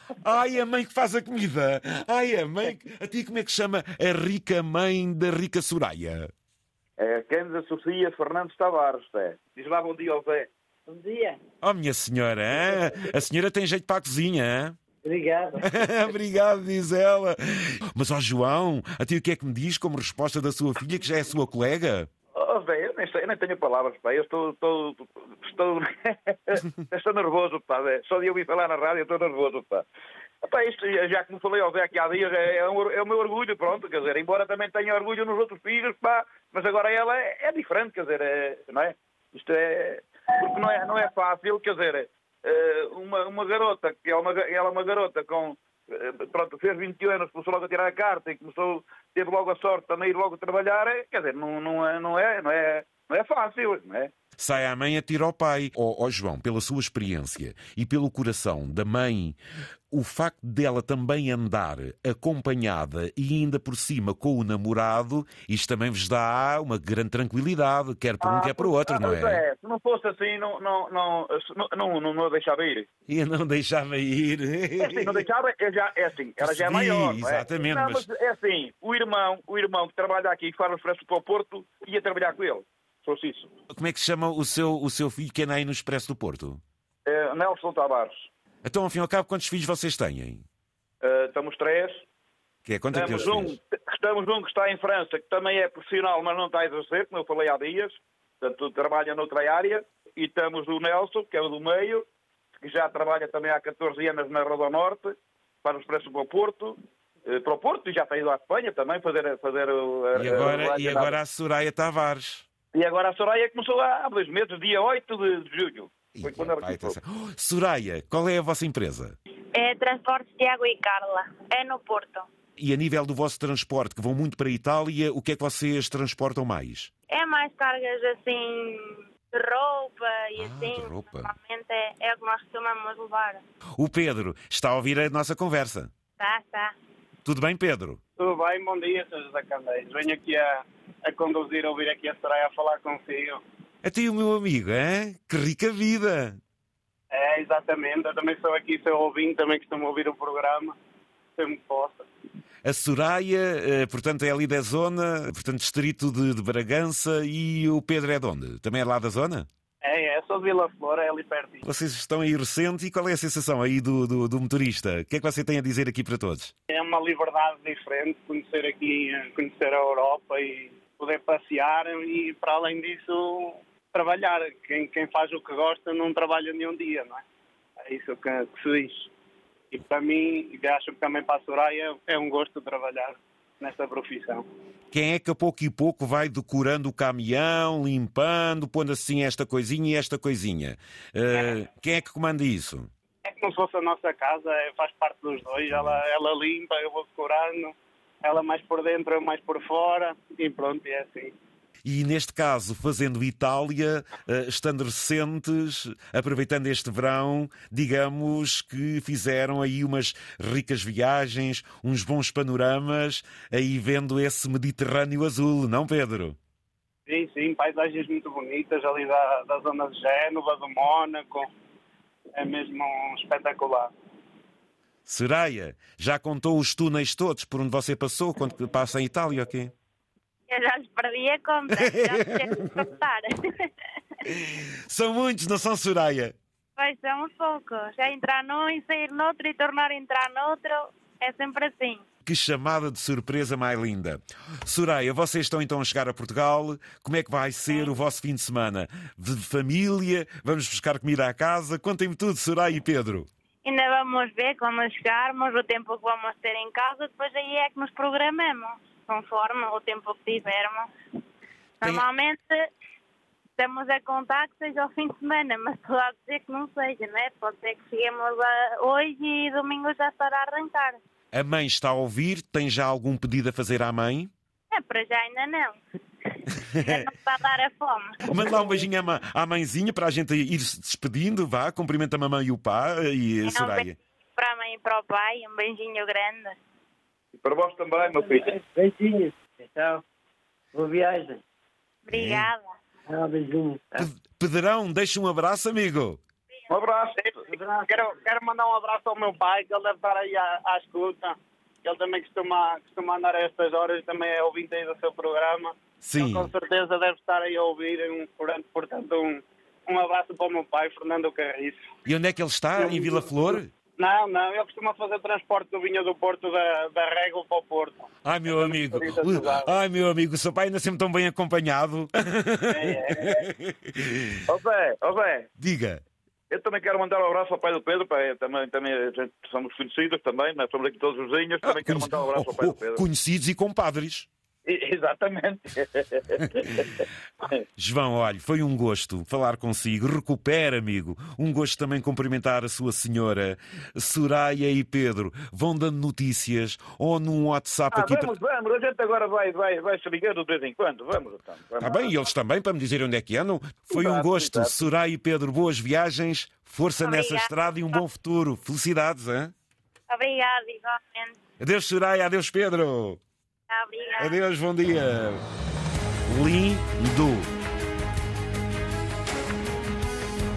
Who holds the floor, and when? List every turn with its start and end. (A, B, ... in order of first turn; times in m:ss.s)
0:00.2-0:06.3 A
0:07.0-0:10.5 B
0:10.9-0:11.4 C
0:11.6-0:14.8 A
0:15.0-0:15.7 C
0:15.6-0:22.1 A
0:22.3-0:29.9 B
0:30.4-0:54.1 B
0:54.4-0:59.4 A
0:59.9-1:09.4 A
1:08.2-1:12.9 B
1:13.1-1:15.2 A
1:14.8-1:23.5 B
1:16.4-1:18.0 A
1:23.7-1:26.6 A
1:27.1-1:28.3 B
1:28.6-1:30.4 A
1:31.0-1:32.0 B
1:32.6-1:33.6 A
1:32.9-1:42.0 B
1:42.6-1:51.2 B
1:50.2-1:52.5 A
1:52.7-1:57.0 B
1:56.2-1:59.2 A
1:59.5-2:02.3 D
2:02.6-2:06.9 A
2:07.1-2:13.4 D
2:10.4-2:11.3 A
2:13.8-2:15.9 A
2:16.2-2:16.7 D
2:17.2-2:18.0 A
2:18.2-2:23.4 E
2:23.8-2:26.4 A
2:27.1-2:30.8 E
2:31.4-2:32.1 E
2:32.6-2:39.5 A
2:39.8-2:41.7 E
2:41.6-2:46.5 A
2:46.7-2:57.2 E
2:57.8-2:59.1 E
2:59.7-3:04.5 E
3:04.9-3:12.9 A
3:13.2-3:21.4 E
3:15.6-3:16.0 A
3:21.8-3:36.4 A
3:37.1-3:41.5 E
3:42.3-3:43.9 E
3:45.0-3:49.7 A
3:50.5-3:53.7 D
3:51.7-3:52.7 A
3:54.3-3:56.4 A
3:56.8-4:02.0 D
4:02.2-4:13.3 A
4:13.6-4:20.9 D
4:21.8-4:22.6 D
4:23.6-4:31.0 D
4:31.3-4:34.3 A
4:34.7-4:35.8 D
4:36.5-4:37.0 A
4:36.8-4:38.3 D
4:38.2-4:44.0 A
4:43.4-4:46.6 D
4:47.3-4:48.6 B
4:48.3-4:50.0 C
4:50.7-4:51.4 C
4:52.0-4:52.8 D
4:52.1-4:52.5 A
4:53.1-4:54.1 C
4:54.0-4:56.2 A
4:56.7-4:57.5 B
4:57.3-5:11.9 E
5:06.0-5:06.5 A
5:12.1-5:13.7 A
5:12.8-5:13.1 E
5:14.0-5:19.8 E
5:18.2-5:24.4 A
5:22.7-5:23.5 E
5:24.5-5:25.5 B
5:25.6-5:26.0 A
5:26.5-5:33.1 B
5:31.6-5:34.3 A
5:34.7-5:37.0 B
5:37.8-5:48.4 A
5:47.9-5:52.1 B
5:51.8-5:59.5 A
5:53.9-5:54.8 B
5:57.0-5:58.0 D
6:00.1-6:01.4 D
6:01.6-6:03.2 A
6:03.7-6:04.4 D
6:04.2-6:05.4 A
6:06.3-6:07.5 A